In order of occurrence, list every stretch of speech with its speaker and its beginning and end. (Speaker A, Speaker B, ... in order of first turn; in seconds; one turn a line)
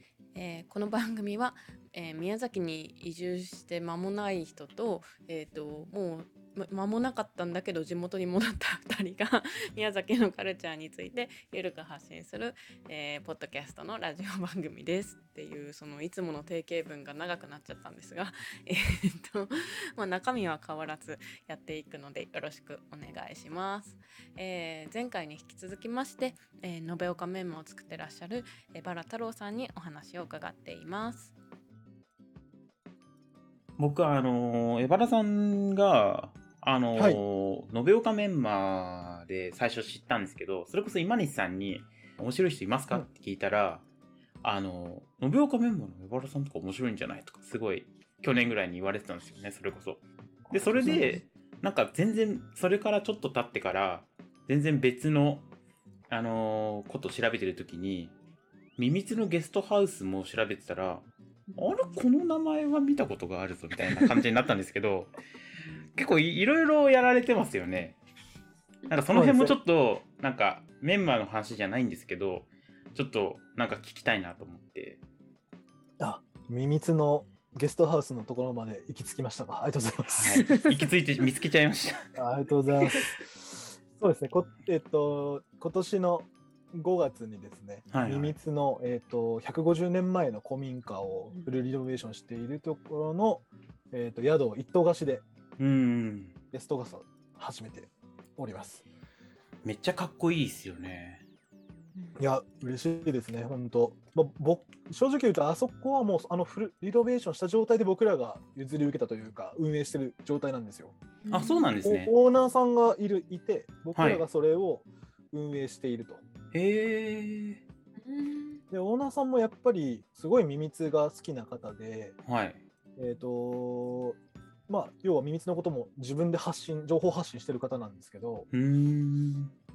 Speaker A: 0.3-31.3
Speaker B: 33.8-43.8
Speaker C: 37.0-37.2
Speaker B: 44.4-55.5
Speaker C: 50.5-51.2
Speaker B: 56.1-58.1
Speaker B: 58.8-65.1
Speaker A: 61.5-62.0
Speaker A: 65.6-65.9
Speaker B: 66.0-68.0
Speaker B: 68.9-75.0
Speaker C: 69.1-69.5
Speaker C: 76.0-80.5
Speaker B: 80.1-82.0
Speaker A: 80.5-80.8
Speaker C: 82.2-95.2
Speaker B: 87.9-88.3
Speaker B: 95.6-96.3
Speaker C: 96.5-98.8
Speaker B: 99.6-101.2
Speaker C: 102.2-110.9
Speaker A: 111.2-111.7
Speaker B: 111.3-112.1
Speaker C: 111.8-116.2
Speaker B: 113.9-114.2
Speaker B: 116.5-117.6
Speaker A: 118.0-118.6
Speaker C: 118.7-122.2
Speaker B: 122.2-122.6
Speaker C: 123.0-128.5
Speaker B: 128.5-129.5